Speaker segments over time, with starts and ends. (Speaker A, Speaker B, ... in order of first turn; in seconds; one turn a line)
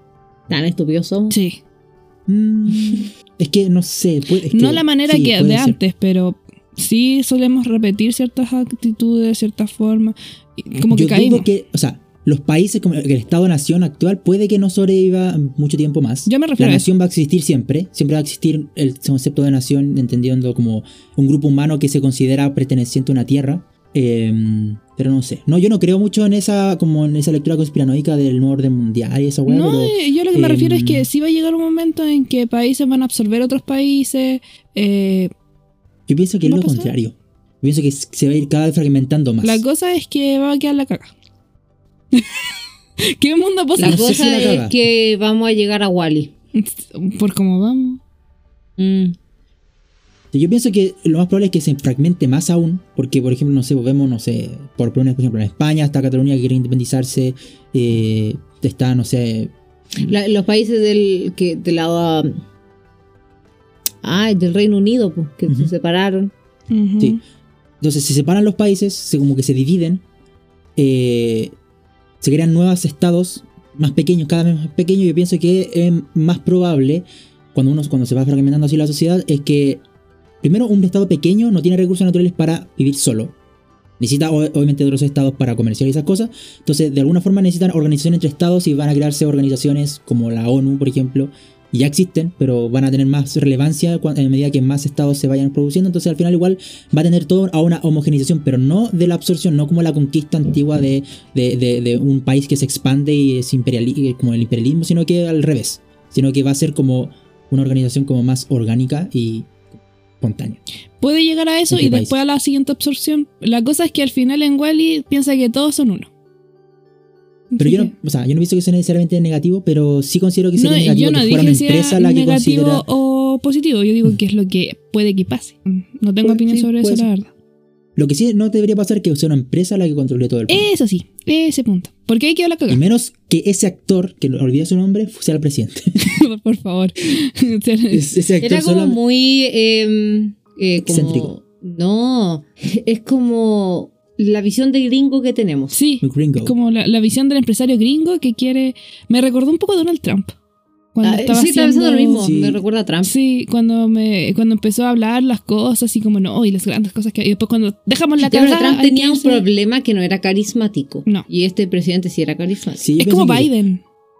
Speaker A: 0.5-1.4
Speaker B: 1.3-1.6
Speaker C: 2.3-5.8
Speaker B: 4.5-11.5
Speaker C: 10.9-31.1
Speaker B: 16.2-16.9
Speaker B: 29.5-35.3
Speaker C: 36.1-39.6
Speaker B: 36.4-36.9
Speaker B: 39.4-41.1
Speaker B: 42.1-42.4
Speaker B: 43.0-44.3
Speaker A: 43.8-46.3
Speaker C: 43.8-44.7
Speaker B: 46.5-48.0
Speaker A: 48.8-49.1
Speaker C: 50.3-60.1
Speaker A: 60.0-62.4
Speaker A: 64.0-66.3
Speaker C: 65.5-65.7
Speaker B: 66.7-67.2
Speaker C: 67.8-70.0
Speaker C: 70.8-71.5
Speaker C: 72.2-79.8
Speaker C: 80.4-83.3
Speaker C: 84.0-109.5
Speaker C: 110.2-110.6
Speaker B: 111.0-116.1
Speaker C: 111.7-112.1
Speaker B: 117.5-117.9
Speaker C: 117.6-122.8
Speaker B: 120.5-127.3
Speaker C: 126.2-127.1
Speaker C: 128.0-130.7
Speaker B: 130.5-132.8
Speaker C: 132.7-136.2
Speaker B: 136.0-138.1
Speaker C: 137.9-139.0
Speaker A: 138.4-145.7
Speaker C: 140.8-141.3
Speaker B: 145.7-150.3
Speaker C: 146.0-146.5
Speaker B: 150.9-152.3
Speaker A: 151.0-153.1
Speaker C: 152.2-152.6
Speaker B: 153.0-159.4
Speaker A: 158.2-162.8
Speaker C: 162.8-163.5
Speaker B: 163.0-163.8